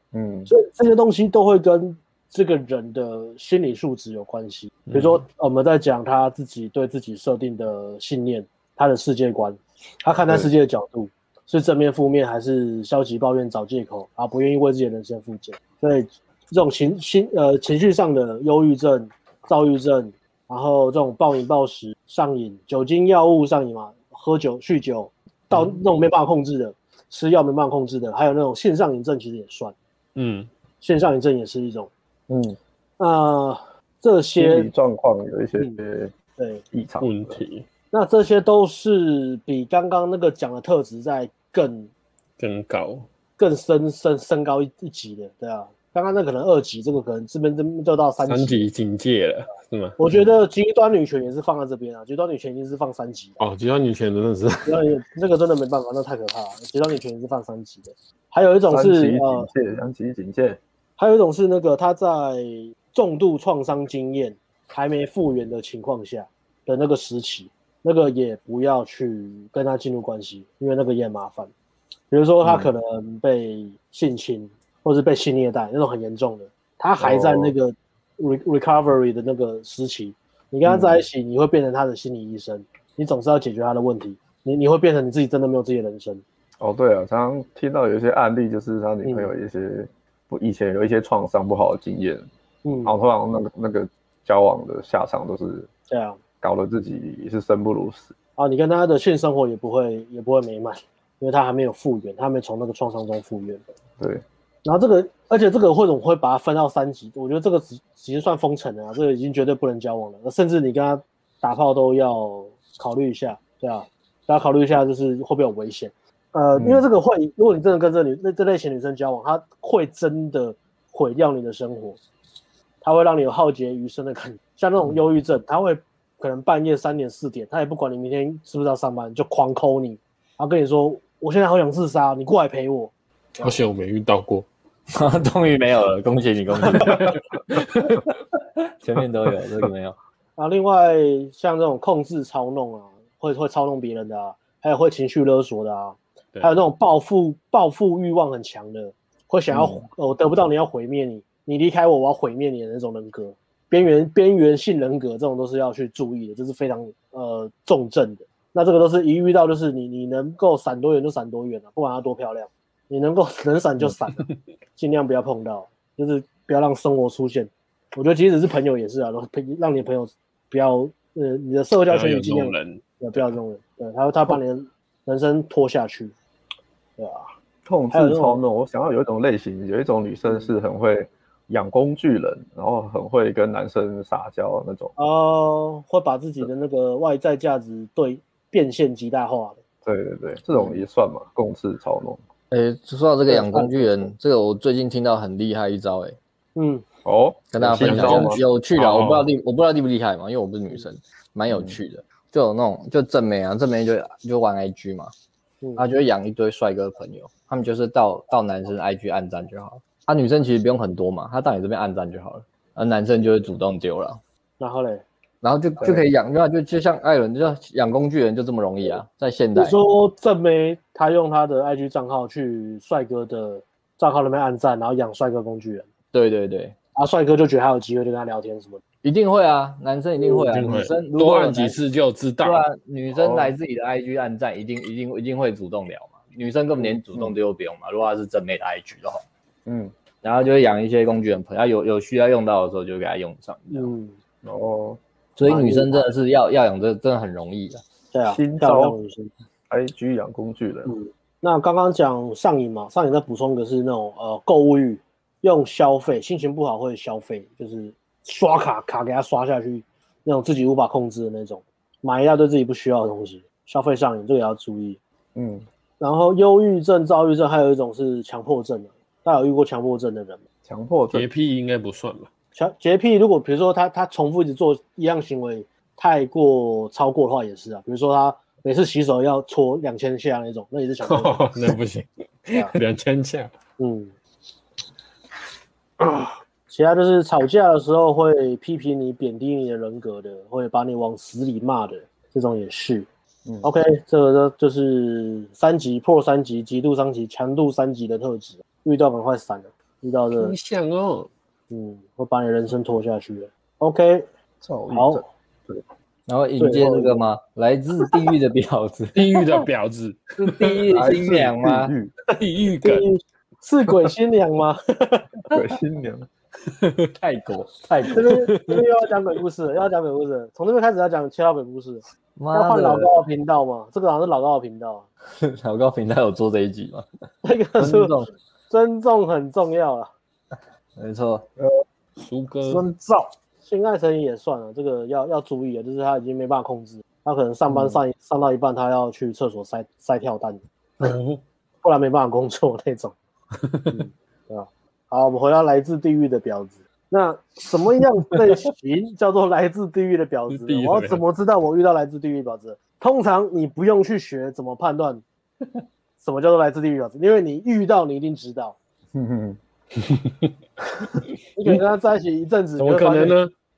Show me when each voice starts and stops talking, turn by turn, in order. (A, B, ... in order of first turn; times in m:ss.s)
0:00.1-0:00.5 A
0:00.5-0:29.7 B
0:04.9-0:05.2 C
0:30.2-0:30.5 C
0:30.8-0:31.9 B
0:32.3-0:32.6 A
0:33.0-0:34.7 B
0:34.4-0:36.1 A
0:36.4-0:36.6 B
0:36.7-0:37.4 A
0:37.0-0:37.6 C
0:37.9-0:41.9 B
0:42.4-0:43.1 C
0:43.4-0:48.7 B
0:48.3-0:50.0 C
0:50.0-0:53.4 B
0:53.4-0:54.7 C
0:54.7-0:59.5 B
0:58.7-1:00.6 A
1:01.0-1:11.5 B
1:12.1-1:26.2 B
1:17.0-1:17.6 A
1:20.6-1:21.0 A
1:26.6-1:32.3 A
1:29.0-1:29.3 B
1:32.6-1:32.9 B
1:32.8-1:35.7 A
1:35.9-1:36.2 B
1:36.4-1:38.1 A
1:38.4-1:43.6 B
1:44.6-2:02.0 B
1:56.6-1:56.8 A
2:02.8-2:13.5 B
2:13.4-2:14.5 C
2:14.9-2:17.2 D
2:17.5-2:18.0 C
2:18.8-2:20.0 D
2:20.4-2:44.2 B
2:29.5-2:29.9 A
2:44.8-2:56.1 B
2:51.9-2:53.3 C
2:57.0-2:57.3 B
2:57.6-3:04.9 A
2:57.9-2:58.4 B
3:00.3-3:00.5 B
3:05.0-3:09.6 B
3:09.8-3:12.2 A
3:10.5-3:10.8 B
3:12.5-3:16.2 D
3:13.3-3:14.1 B
3:16.6-3:16.8 B
3:17.0-3:18.4 A
3:17.5-3:25.1 D
3:17.8-3:19.3 C
3:21.5-3:21.8 A
3:25.8-3:34.2 D
3:34.6-3:35.0 B
3:35.4-3:39.8 D
3:39.6-3:45.9 B
3:46.1-3:46.8 D
3:47.0-3:48.8 B
3:49.0-3:51.8 D
3:50.2-3:50.7 B
3:50.5-3:52.6 C
3:52.4-3:59.2 D
3:53.1-3:53.5 A
3:59.7-3:59.9 A
4:00.2-4:03.9 D
4:03.7-4:04.2 B
4:04.4-4:05.0 A
4:05.4-4:07.8 D
4:05.4-4:06.1 B
4:08.1-4:09.3 B
4:08.3-4:09.0 A
4:09.7-4:10.9 A
4:10.9-4:25.0 B
4:25.4-4:25.7 A
4:26.0-4:30.4 B
4:30.7-4:31.3 A
4:31.1-4:32.3 C
4:32.6-4:41.5 B
4:41.0-4:43.5 C
4:42.5-4:42.8 B
4:43.8-4:44.1 B
4:46.7-4:53.1 B
4:53.6-5:00.6 B
5:00.4-5:01.3 C
5:01.7-5:04.3 B
5:04.6-5:05.8 A
5:04.9-5:05.2 B
5:06.3-5:09.5 D
5:06.6-5:07.2 B
5:09.2-5:10.8 C
5:10.4-5:11.9 D
5:10.9-5:12.1 A
5:12.3-5:13.1 C
5:12.8-5:15.4 B
5:15.5-5:16.3 A
5:16.7-5:17.1 C
5:17.2-5:18.4 D
5:18.0-5:25.1 B
5:22.4-5:23.1 D
5:25.4-5:27.1 D
5:27.4-5:28.2 B
5:27.8-5:28.3 D
5:28.7-5:30.1 B
5:31.0-5:31.5 D
5:32.2-5:32.8 C
5:32.6-5:41.1 B
5:41.0-5:41.4 C
5:41.8-5:43.2 B
5:43.9-5:55.2 B
5:50.5-5:51.2 C
5:56.2-5:58.8 B
5:59.2-5:59.6 A
6:00.0-6:00.4 C
6:01.6-6:03.4 B
6:02.8-6:03.5 C